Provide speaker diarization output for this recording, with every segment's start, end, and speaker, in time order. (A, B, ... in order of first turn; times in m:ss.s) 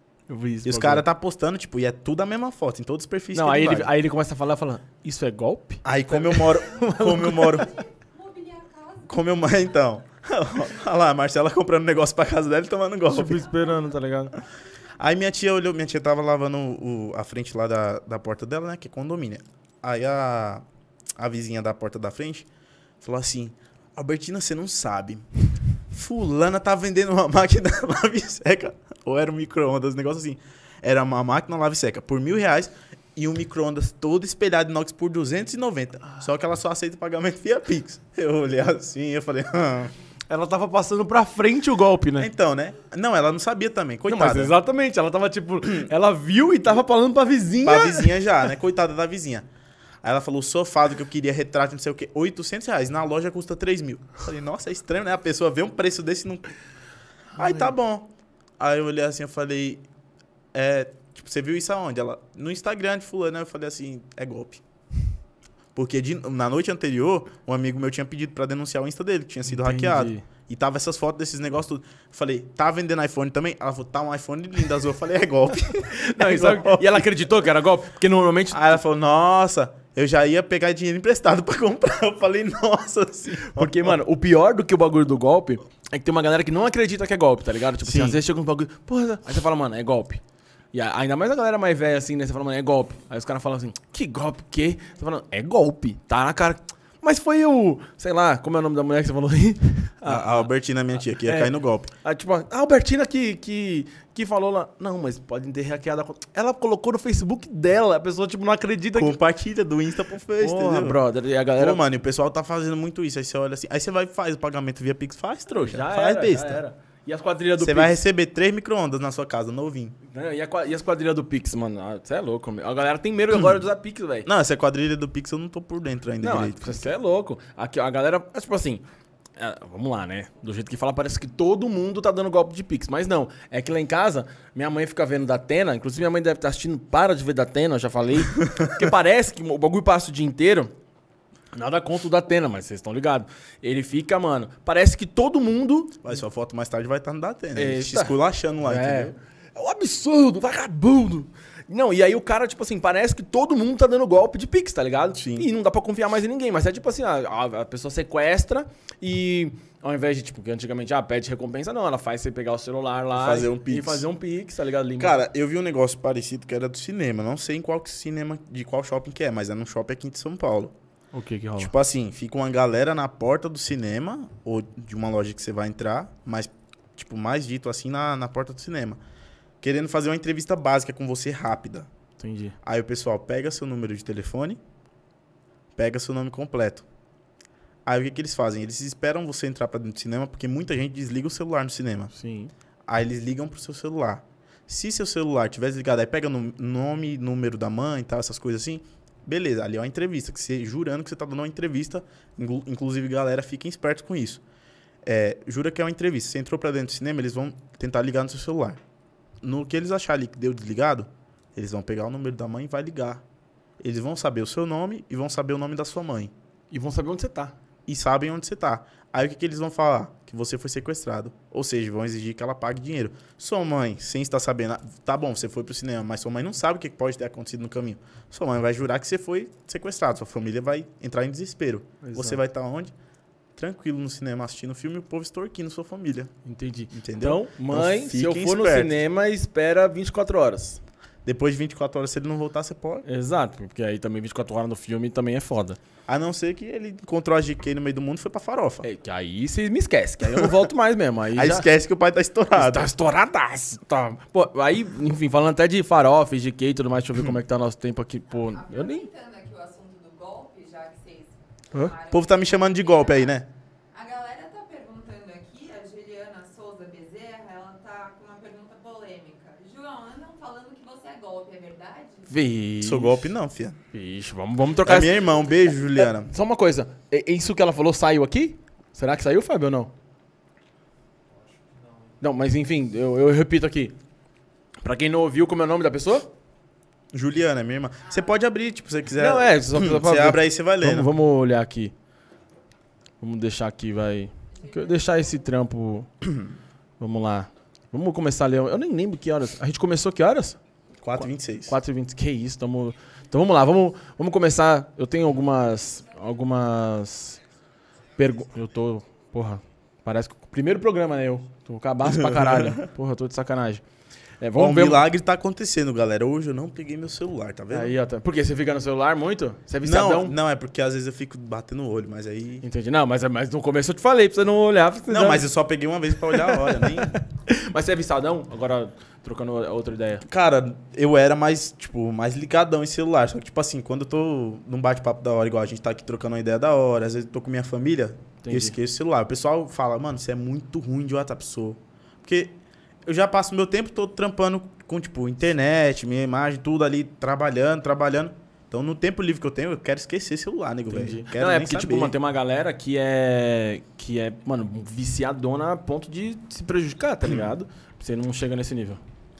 0:00.3-0:01.0 A
0:00.6-0:03.9 B
0:03.3-0:07.7 A
0:05.8-0:07.7 B
0:07.4-0:09.5 C
0:09.0-0:13.4 B
0:13.1-0:14.3 A
0:15.0-0:20.6 B
0:21.2-0:22.5 B
0:23.0-0:25.2 B
0:25.9-0:39.9 B
0:40.3-0:42.3 A
0:42.2-0:44.6 B
0:44.1-0:48.3 A
0:47.6-0:49.4 B
0:50.0-0:56.4 B
0:57.4-0:57.7 A
0:57.4-0:59.8 B
1:00.5-1:04.6 B
1:05.7-1:17.0 B
1:09.5-1:10.2 A
1:15.9-1:18.8 A
1:18.5-1:23.9 B
1:23.4-1:30.2 A
1:27.8-1:28.2 B
1:30.7-1:40.5 A
1:40.0-1:41.9 B
1:41.2-1:49.2 A
1:48.9-1:51.0 B
1:50.4-1:51.8 A
1:51.6-1:56.6 B
1:55.5-1:58.0 A
1:57.6-2:00.0 B
2:00.1-2:04.3 A
2:04.3-2:06.9 B
2:06.2-2:08.8 A
2:09.4-2:20.7 A
2:21.5-2:26.0 A
2:26.0-2:29.1 B
2:27.6-2:45.2 A
2:35.2-2:35.4 B
2:43.1-2:44.0 B
2:45.0-2:50.7 B
2:51.1-2:51.7 A
2:51.6-2:59.0 B
2:59.6-3:01.9 B
3:02.2-3:02.6 A
3:02.6-3:04.6 B
3:05.8-3:06.9 B
3:07.9-3:12.1 B
3:12.1-3:12.5 A
3:12.9-3:24.4 B
3:25.0-3:28.8 B
3:29.4-3:33.2 B
3:33.8-3:36.3 B
3:36.7-3:37.6 A
3:37.9-3:52.9 B
3:52.0-3:52.4 A
3:53.6-3:56.3 B
3:56.4-4:00.8 A
3:56.9-3:59.0 B
4:01.2-4:03.0 B
4:03.0-4:05.8 A
4:06.1-4:08.8 B
4:08.8-4:11.7 A
4:10.2-4:10.5 B
4:11.3-4:12.9 B
4:12.5-4:19.1 A
4:18.3-4:23.4 C
4:22.1-4:23.5 B
4:23.9-4:32.3 C
4:32.3-4:33.3 A
4:32.8-4:33.8 B
4:33.9-4:35.3 A
4:34.8-4:36.3 B
4:35.9-4:39.9 A
4:42.2-4:44.0 A
4:44.8-4:46.3 A
4:47.1-4:51.1 B
4:49.2-4:51.9 A
4:53.2-4:56.1 A
4:54.6-4:55.4 C
4:57.0-5:00.6 A
5:01.0-5:01.7 B
5:01.2-5:07.4 A
5:08.2-5:13.8 A
5:12.0-5:12.9 B
5:14.4-5:15.0 A
5:14.6-5:17.9 B
5:17.7-5:20.4 A
5:19.8-5:22.6 B
5:22.6-5:25.4 A
5:25.1-5:27.2 B
5:26.3-5:30.2 A
5:30.3-5:52.1 B
5:38.4-5:38.8 A
5:50.9-5:59.0 A